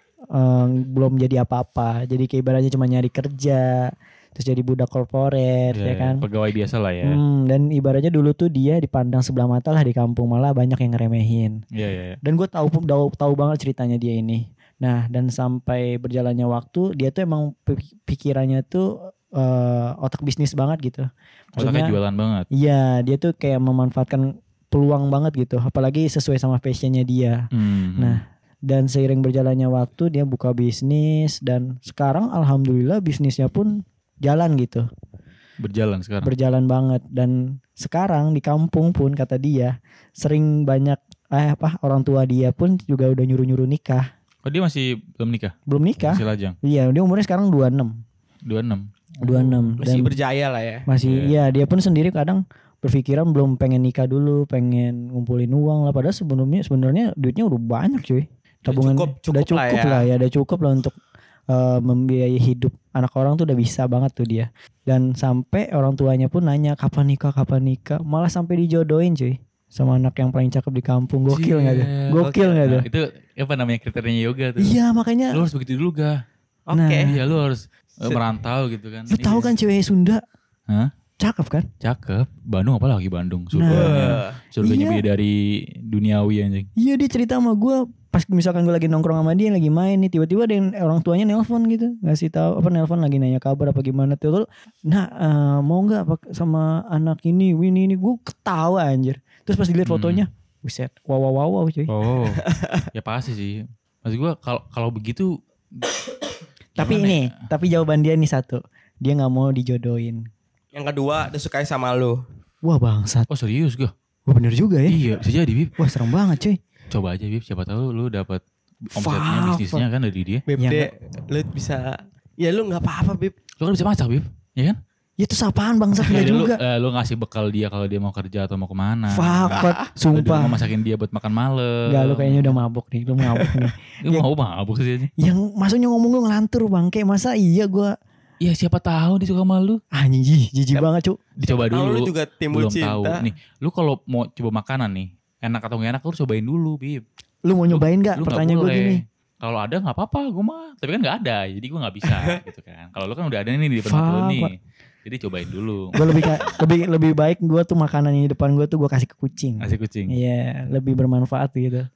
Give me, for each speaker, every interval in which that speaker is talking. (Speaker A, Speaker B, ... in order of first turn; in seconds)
Speaker A: 0.3-6.2, 7.0-11.6, 12.2-22.0, 22.5-27.4, 28.0-34.9, 36.2-44.1, 45.7-48.0, 49.2-50.2, 50.9-61.0, 61.5-72.9, 74.6-75.4, 76.7-77.1, 79.1-80.2, 81.2-81.7, 83.5-85.0, 86.8-101.9, 106.8-110.3, 112.6-113.3, 114.3-115.1, 115.8-116.6, 118.9-119.8, 120.6-120.9, 125.2-126.6, 129.1-130.6, 131.9-134.3, 135.2-137.9, 139.9-141.2, 147.4-149.0, 153.9-154.5, 155.9-161.9
Speaker B: 5.7-7.2, 11.7-12.2, 21.6-22.5, 27.5-28.2, 35.6-36.3, 44.5-46.6, 48.5-49.8, 51.0-51.4, 71.3-74.8, 75.3-76.2, 77.0-79.5, 81.8-86.7, 99.8-100.2, 101.9-105.8, 106.8-107.3, 113.3-113.9, 114.9-115.7, 116.9-120.4, 123.6-124.8, 126.0-132.6, 134.0-135.1, 138.4-139.8, 141.4-147.0, 147.7-156.6, 159.6-160.1
Speaker C: 49.8-50.9, 58.7-60.1, 72.2-72.6, 76.7-77.1, 83.7-84.4, 102.3-102.8, 110.8-112.2, 120.5-123.3, 141.4-143.3, 152.1-152.4